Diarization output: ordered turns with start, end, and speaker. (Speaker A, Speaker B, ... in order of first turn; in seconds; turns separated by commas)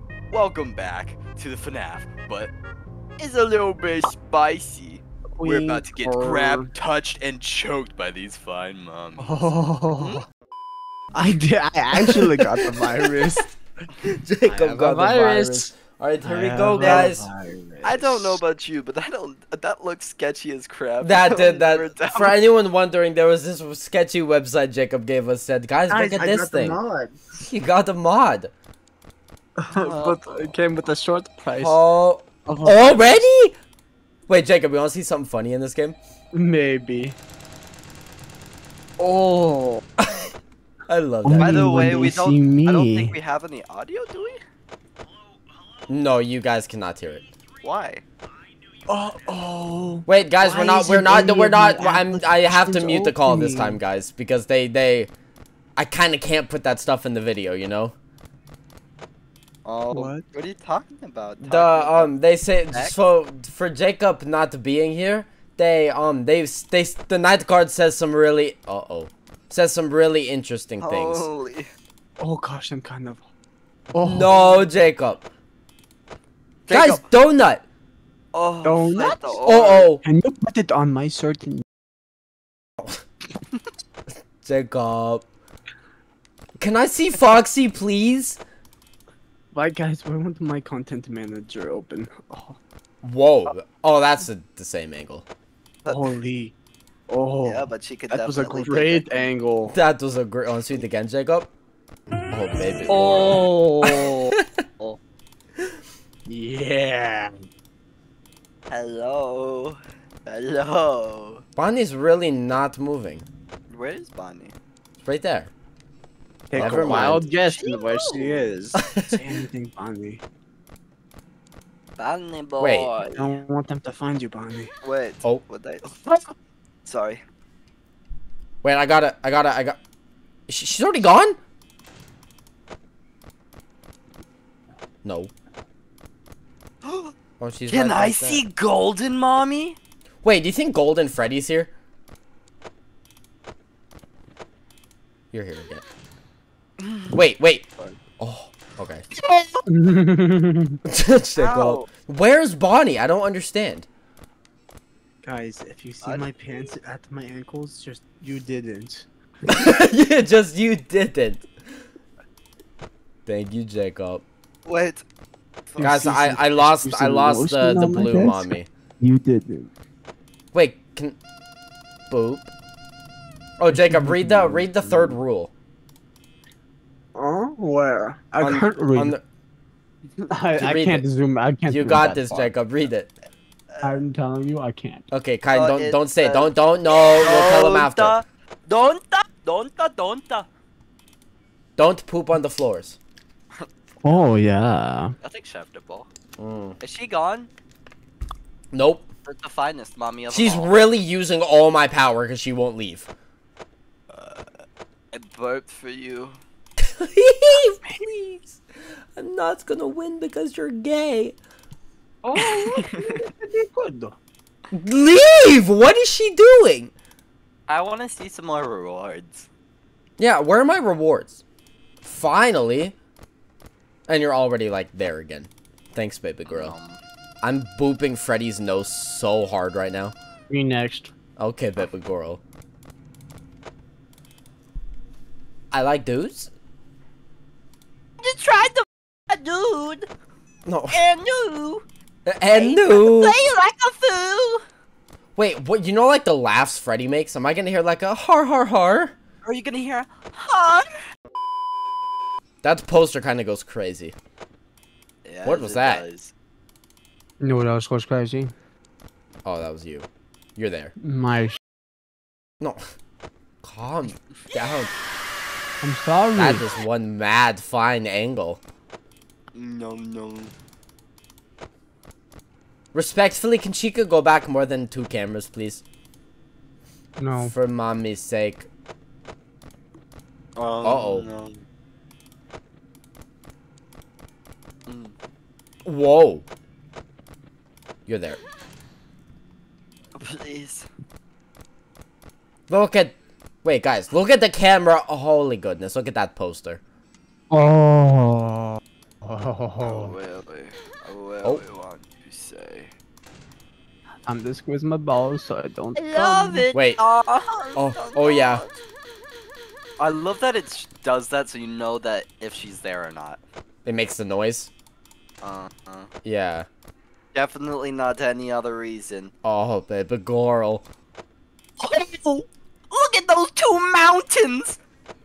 Speaker A: 0.3-2.5, Speaker A: 3.2-10.2, Speaker B: 5.4-6.7, Speaker B: 9.2-10.2, Speaker B: 11.1-13.5, Speaker C: 14.0-17.2, Speaker B: 14.4-18.4, Speaker A: 16.8-17.1, Speaker A: 17.8-22.4, Speaker C: 21.0-26.8, Speaker B: 25.9-27.3, Speaker C: 27.4-28.5, Speaker B: 29.6-31.8, Speaker A: 29.7-30.5, Speaker C: 31.6-33.5, Speaker B: 32.5-33.3, Speaker C: 34.3-36.0, Speaker B: 36.3-37.2, Speaker B: 39.0-39.8, Speaker C: 40.0-40.3, Speaker C: 40.9-41.8, Speaker B: 41.2-43.1, Speaker A: 41.4-44.4, Speaker C: 45.9-47.2, Speaker A: 47.6-48.0, Speaker B: 48.9-53.8, Speaker C: 50.1-55.1, Speaker C: 55.8-58.0, Speaker A: 59.6-62.1, Speaker B: 59.9-60.2, Speaker C: 61.4-71.3, Speaker A: 70.8-71.7, Speaker B: 72.2-73.2, Speaker B: 73.9-74.4, Speaker C: 74.0-75.2, Speaker A: 76.7-77.0, Speaker C: 76.7-77.7, Speaker A: 78.3-79.9, Speaker B: 78.6-81.6, Speaker C: 79.4-80.0, Speaker C: 84.4-85.2, Speaker C: 86.6-88.4, Speaker B: 89.5-92.6, Speaker C: 93.0-95.3, Speaker B: 95.9-96.5, Speaker B: 97.1-99.8, Speaker A: 97.5-99.3, Speaker C: 99.7-101.5, Speaker C: 102.3-104.4, Speaker B: 102.9-105.0, Speaker B: 106.3-107.3, Speaker A: 108.7-111.4, Speaker C: 111.6-113.3, Speaker A: 113.7-114.5, Speaker C: 115.0-115.5, Speaker B: 116.5-120.2, Speaker C: 116.5-117.2, Speaker A: 116.5-118.5, Speaker C: 118.8-119.2, Speaker A: 122.0-123.4, Speaker C: 122.6-122.9, Speaker B: 123.1-124.7, Speaker A: 124.8-126.2, Speaker A: 126.8-127.2, Speaker C: 128.6-129.8, Speaker C: 130.5-131.4, Speaker C: 135.0-135.3, Speaker A: 136.8-137.1, Speaker C: 137.4-138.4, Speaker A: 137.7-139.8, Speaker C: 140.2-141.7, Speaker C: 145.3-145.8, Speaker A: 146.8-147.2, Speaker C: 147.1-147.6, Speaker C: 148.2-149.0, Speaker A: 149.2-149.6, Speaker B: 149.7-150.8, Speaker C: 150.9-153.9, Speaker A: 151.4-151.9, Speaker B: 155.2-159.1, Speaker C: 159.5-161.5, Speaker C: 163.2-164.2, Speaker A: 164.7-165.0, Speaker B: 165.8-169.7, Speaker C: 165.8-168.7, Speaker C: 170.5-171.2, Speaker C: 172.1-172.5, Speaker C: 173.6-175.5, Speaker B: 173.7-175.2, Speaker B: 177.1-179.2, Speaker C: 178.4-179.2, Speaker B: 180.3-182.5, Speaker C: 180.6-181.1, Speaker C: 181.7-183.1, Speaker A: 183.7-184.0, Speaker B: 183.8-185.1, Speaker C: 185.1-188.2, Speaker A: 185.5-186.5, Speaker A: 187.2-190.5, Speaker C: 191.8-193.0, Speaker A: 193.5-194.3, Speaker B: 194.0-195.2, Speaker A: 195.2-196.1, Speaker C: 196.4-196.8, Speaker A: 196.8-197.5, Speaker C: 198.7-199.1, Speaker A: 199.2-200.8, Speaker C: 200.3-203.1, Speaker A: 204.1-204.4, Speaker A: 205.1-206.4, Speaker C: 207.0-208.6, Speaker C: 209.2-211.4, Speaker A: 212.2-213.0, Speaker B: 212.3-214.2, Speaker C: 214.7-216.9, Speaker A: 217.7-219.5, Speaker C: 220.2-221.4, Speaker C: 222.0-222.9, Speaker C: 224.1-226.7, Speaker A: 226.5-227.0, Speaker C: 227.4-230.1, Speaker B: 230.5-231.1, Speaker C: 231.4-232.4, Speaker C: 235.7-236.5, Speaker A: 238.2-240.1, Speaker C: 240.7-241.0, Speaker A: 240.9-241.8, Speaker C: 242.2-243.4, Speaker A: 242.5-244.6, Speaker C: 245.3-249.1, Speaker A: 249.4-250.9, Speaker C: 252.6-254.1, Speaker A: 255.2-256.3, Speaker C: 255.4-256.0, Speaker B: 257.4-258.5, Speaker C: 259.4-260.9, Speaker B: 261.0-261.6, Speaker C: 263.6-264.9, Speaker B: 265.8-266.6, Speaker C: 266.4-268.6, Speaker A: 269.5-270.5, Speaker C: 272.9-275.8, Speaker B: 277.2-277.6, Speaker C: 277.3-278.7, Speaker A: 280.6-281.6, Speaker C: 280.8-281.3, Speaker A: 284.9-285.1, Speaker C: 285.9-286.5, Speaker C: 288.1-288.4, Speaker A: 290.2-290.9, Speaker C: 292.7-296.8, Speaker B: 297.5-300.1, Speaker A: 299.8-302.9, Speaker B: 304.2-306.7, Speaker A: 306.0-308.8, Speaker C: 306.7-307.0, Speaker C: 307.8-308.6, Speaker A: 310.0-313.4, Speaker C: 313.9-314.7, Speaker A: 315.4-316.1, Speaker C: 316.2-316.7, Speaker A: 317.3-319.3, Speaker C: 319.4-320.9, Speaker A: 321.8-324.8